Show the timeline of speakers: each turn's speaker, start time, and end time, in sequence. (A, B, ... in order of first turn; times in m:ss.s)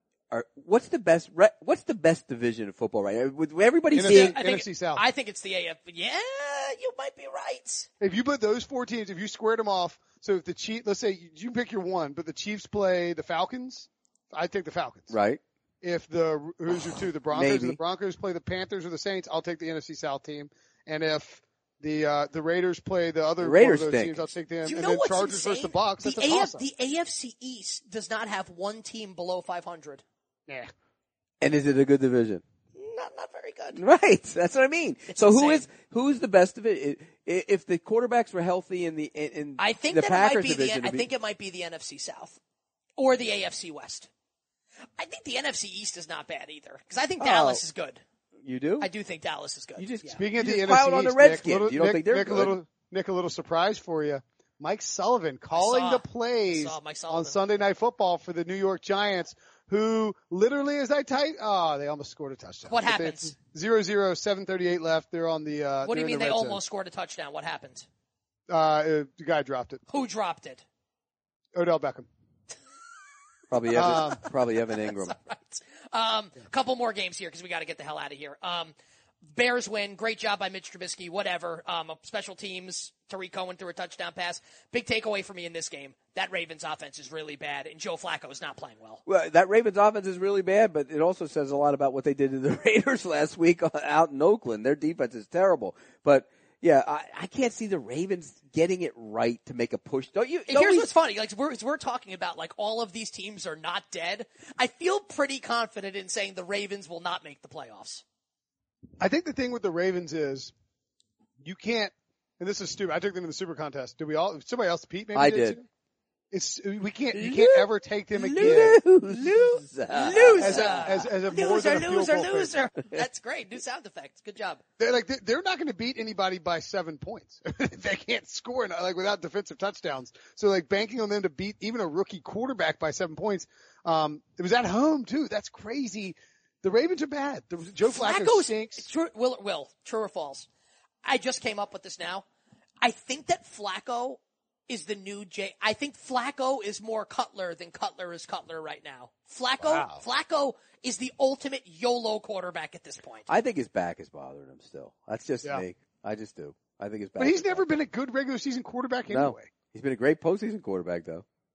0:00.3-0:04.4 A
0:03.9-0:05.0 B
0:04.0-0:07.9 C
0:08.0-0:15.1 B
0:15.1-0:15.4 A
0:15.8-0:26.6 B
0:17.3-0:17.8 A
0:23.4-0:24.3 A
0:24.6-0:30.0 C
0:31.4-0:32.4 A
0:32.7-0:33.8 C
0:33.7-0:41.1 A
0:35.1-0:35.6 C
0:39.6-0:42.4 C
0:43.0-0:44.1 C
0:45.0-0:48.0 C
0:47.2-0:47.6 A
0:48.4-0:48.9 A
0:48.8-0:50.2 C
0:49.8-0:52.6 A
0:50.2-1:06.6 B
0:55.5-0:57.4 C
1:02.6-1:03.3 C
1:05.8-1:07.8 C
1:08.5-1:09.8 B
1:09.9-1:10.6 C
1:11.5-1:12.1 B
1:13.5-1:15.2 A
1:13.7-1:14.2 B
1:13.9-1:18.7 C
1:19.3-1:29.0 C
1:29.0-1:40.9 A
1:40.5-1:48.0 C
1:49.0-1:50.5 B
1:51.4-1:55.7 B
1:55.1-1:55.6 A
1:56.3-1:58.8 B
1:57.1-2:01.0 A
1:59.9-2:04.6 C
2:00.4-2:02.5 B
2:04.8-2:18.8 B
2:17.8-2:20.5 C
2:21.0-2:22.2 C
2:22.8-2:33.3 C
2:29.6-2:30.0 B
2:33.3-2:37.6 A
2:37.2-2:39.5 B
2:39.1-2:41.2 A